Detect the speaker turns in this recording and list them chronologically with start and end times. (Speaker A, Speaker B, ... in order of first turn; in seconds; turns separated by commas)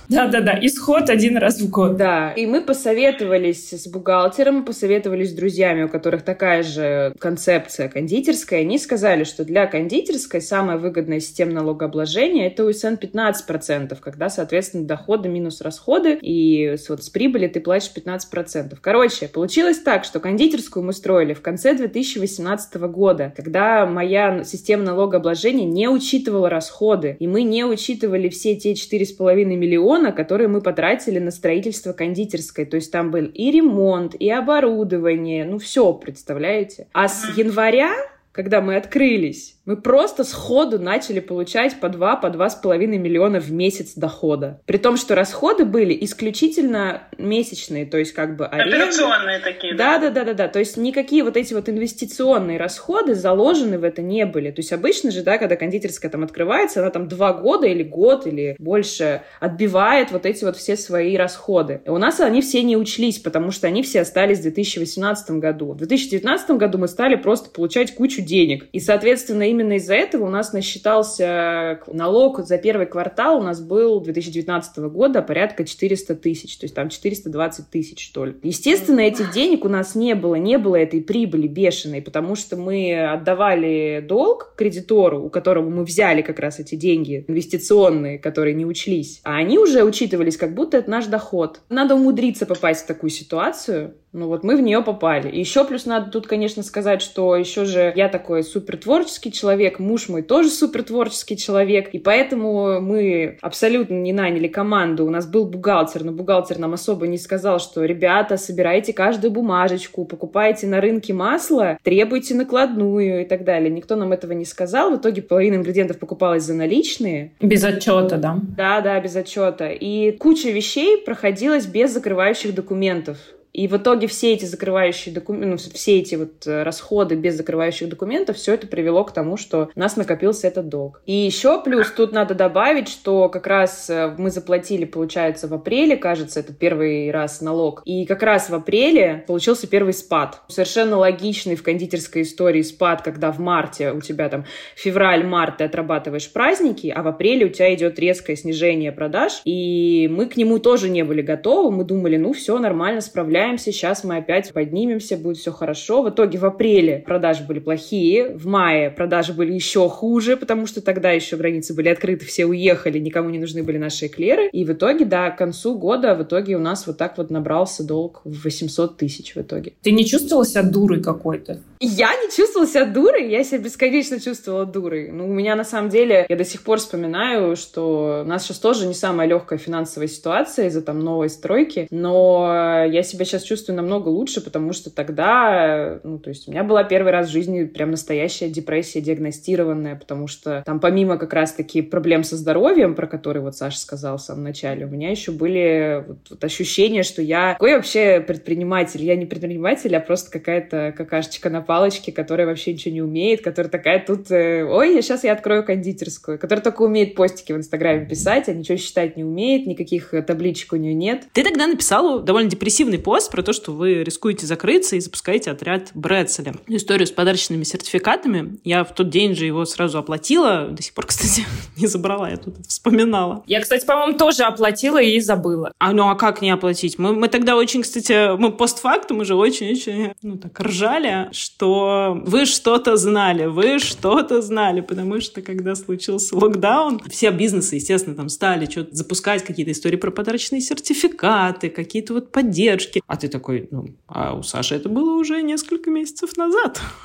Speaker A: 0.1-2.0, Speaker B: 1.9-49.1, Speaker C: 48.6-49.9, Speaker B: 49.7-117.3, Speaker A: 117.4-118.5, Speaker B: 118.6-169.7, Speaker A: 169.8-171.6, Speaker B: 171.8-211.3, Speaker C: 211.3-223.4, Speaker A: 223.5-225.7, Speaker C: 225.8-246.8